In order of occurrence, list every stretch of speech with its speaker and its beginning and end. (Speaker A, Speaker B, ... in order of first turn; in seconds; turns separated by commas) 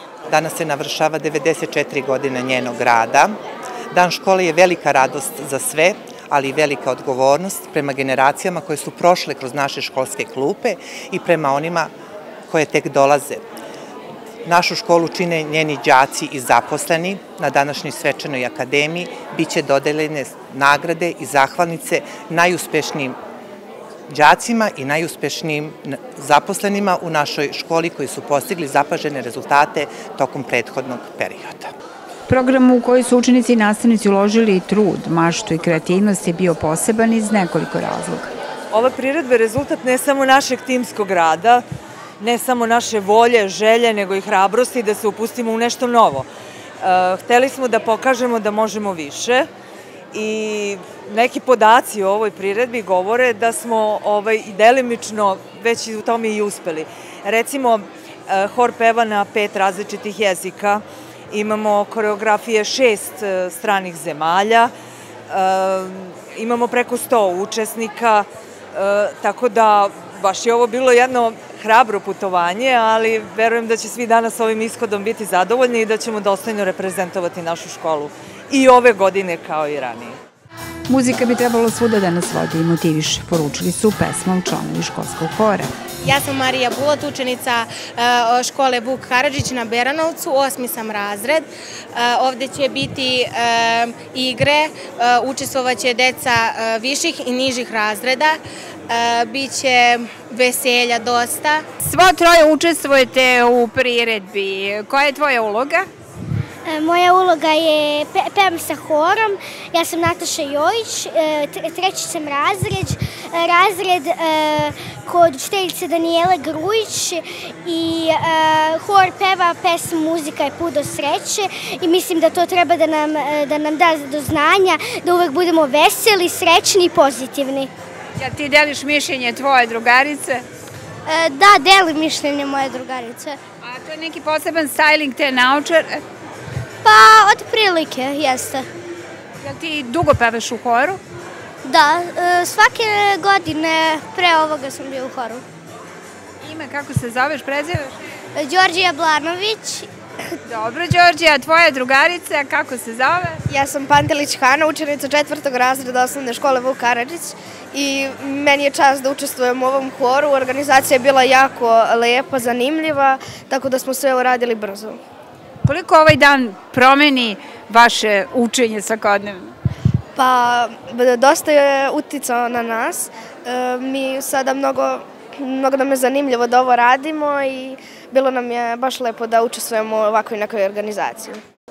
Speaker A: 0.3-3.4, Speaker A: 3.9-11.9, Speaker A: 12.5-13.4, Speaker A: 14.4-23.2, Speaker A: 24.1-31.7, Speaker B: 32.3-38.3, Speaker C: 38.7-41.6, Speaker C: 42.2-46.3, Speaker C: 46.8-49.5, Speaker C: 50.1-64.7, Speaker C: 65.3-80.2, Speaker B: 80.9-85.7, Speaker D: 86.0-98.4, Speaker D: 98.9-101.6, Speaker B: 101.8-105.9, Speaker E: 106.7-127.7, Speaker B: 128.2-130.4, Speaker E: 131.1-133.4, Speaker B: 133.6-136.0, Speaker E: 136.8-138.7, Speaker B: 139.4-141.0, Speaker E: 141.6-145.4, Speaker B: 146.4-148.0, Speaker E: 148.3-149.9, Speaker B: 150.5-153.4, Speaker F: 153.5-165.0, Speaker B: 165.7-169.5, Speaker F: 170.2-181.4